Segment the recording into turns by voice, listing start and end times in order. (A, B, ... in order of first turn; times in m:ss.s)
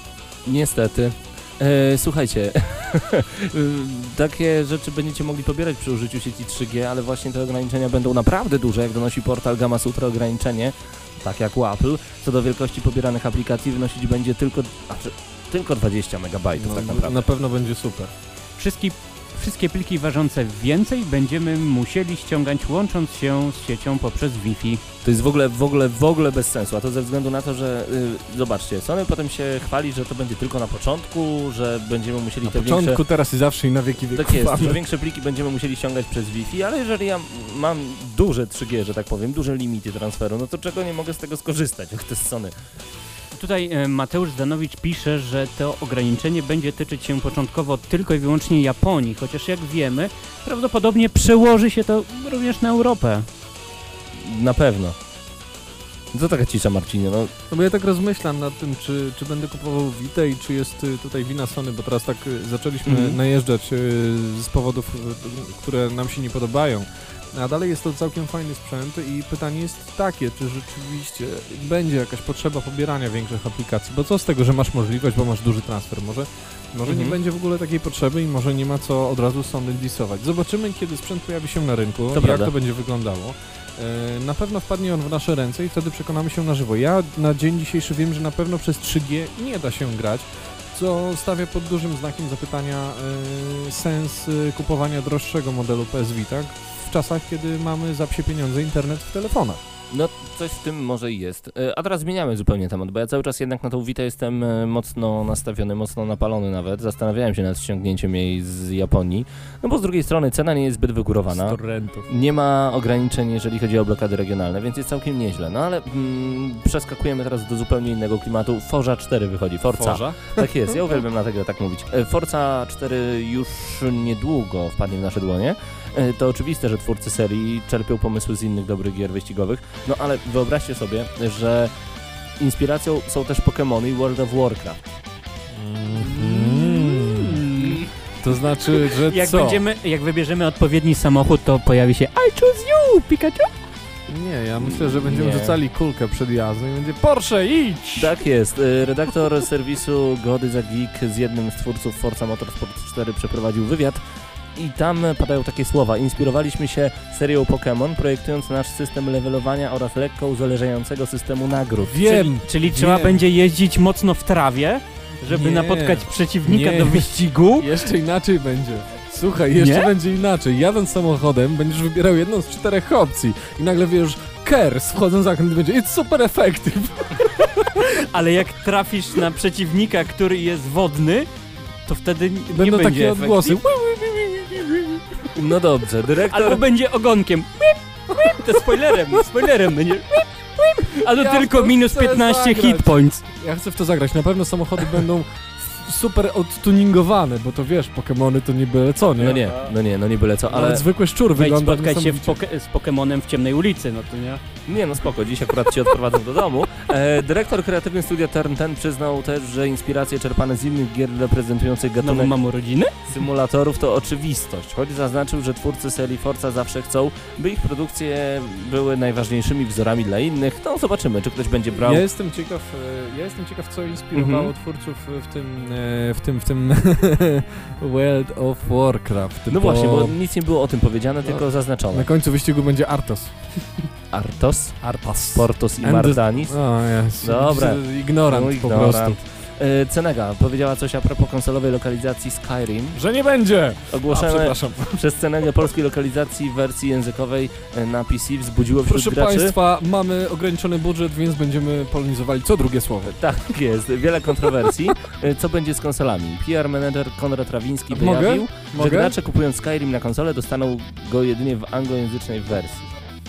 0:00.4-0:17.2 A
0:16.6-0:18.1 B
0:18.6-0:24.8 C
0:25.0-0:33.0 A
0:32.4-0:34.8 B
0:34.1-0:42.5 A
0:43.3-0:53.3 C
0:54.2-0:55.0 A
0:56.1-0:57.3 A
0:57.5-1:39.6 B
1:02.8-1:03.2 A
1:16.8-1:17.2 A
1:22.1-1:22.5 A
1:39.9-2:11.7 A
1:51.3-1:52.1 B
1:59.7-2:00.5 B
2:12.4-2:14.8 A
2:15.5-2:19.6 B
2:16.0-2:17.9 C
2:18.7-2:23.5 C
2:24.1-2:28.1 B
2:24.6-2:25.6 A
2:28.0-2:34.0 A
2:34.6-2:42.1 A
2:41.8-2:43.2 B
2:42.0-2:47.7 C
2:45.2-2:57.8 B
2:49.5-2:49.9 C
2:57.7-3:01.3 C
3:01.8-3:03.6 C
3:02.5-3:05.0 B
3:05.3-3:06.6 A
3:06.3-3:13.2 C
3:08.2-3:08.8 B
3:10.8-3:19.6 B
3:19.2-3:20.8 A
3:20.5-3:22.4 B
3:21.4-3:24.4 C
3:24.7-3:32.3 A
3:32.0-3:32.9 C
3:33.1-3:42.0 A
3:41.8-3:50.2 B
3:44.1-3:44.5 A
3:49.5-3:52.1 A
3:51.2-3:53.4 B
3:54.1-3:56.6 A
3:54.8-3:59.2 B
3:57.2-4:03.0 A
4:02.9-4:05.0 B
4:03.9-4:09.5 A
4:08.8-4:13.2 B
4:13.0-4:22.8 A
4:17.9-4:19.1 B